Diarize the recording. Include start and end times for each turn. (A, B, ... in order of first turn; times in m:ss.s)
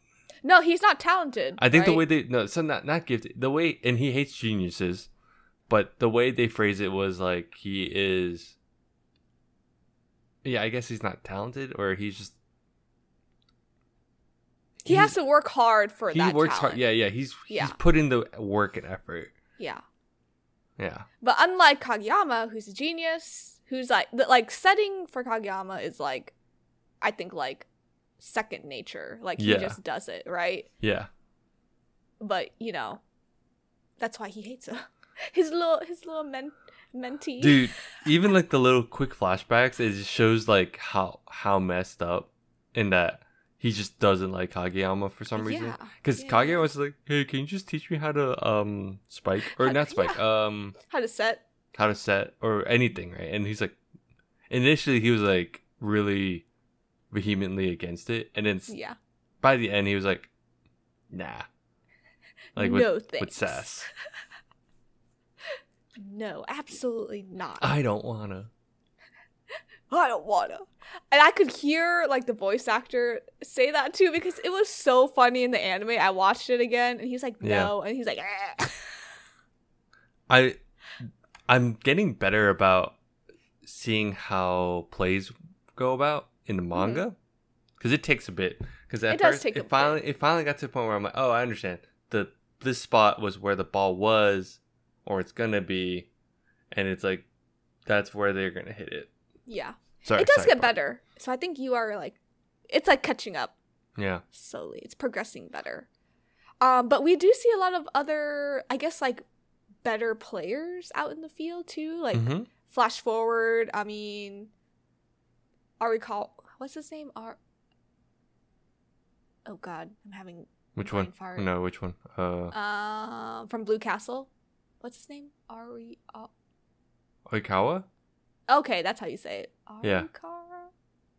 0:00.4-0:02.0 A
0:01.6-0:05.1 B
0:05.7-0:08.6 B
0:10.4-0:12.3 B
0:14.8-0:15.1 B
0:14.8-0:16.8 A
0:16.1-0:19.3 B
0:17.5-0:17.8 A
0:19.6-0:19.8 A
0:20.8-0:21.0 B
0:21.2-0:26.3 A
0:27.0-0:27.7 A
0:28.2-0:30.7 A
0:29.4-0:29.8 B
0:30.8-0:31.1 B
0:32.2-0:33.0 A
0:34.0-0:37.8 A
0:37.4-0:50.8 B
0:45.4-0:46.7 A
0:49.4-0:50.2 A
0:50.8-0:51.4 A
0:51.7-0:53.8 B
0:54.5-0:56.4 B
0:57.1-0:58.7 B
0:58.7-0:59.0 A
0:59.4-1:00.3 B
1:01.1-1:01.4 B
1:02.5-1:03.7 A
1:02.6-1:03.9 B
1:06.0-1:07.7 A
1:07.6-1:08.5 B
1:09.9-1:19.0 A
1:17.4-1:17.7 B
1:20.3-1:23.0 B
1:23.6-1:27.2 B
1:26.7-1:27.0 A
1:27.8-1:36.1 B
1:29.1-1:30.0 A
1:36.7-1:37.2 B
1:37.8-1:39.1 B
1:39.4-1:43.6 A
1:40.0-1:40.7 B
1:44.0-1:44.2 B
1:44.3-1:45.9 A
1:46.6-1:49.2 A
1:49.8-1:54.5 A
1:52.1-1:52.5 B
1:55.8-1:57.4 A
1:59.4-2:01.5 A
2:00.7-2:02.5 B
2:02.5-2:04.3 A
2:04.8-2:06.3 A
2:07.3-2:07.8 B
2:08.5-2:10.7 A
2:09.8-2:10.1 B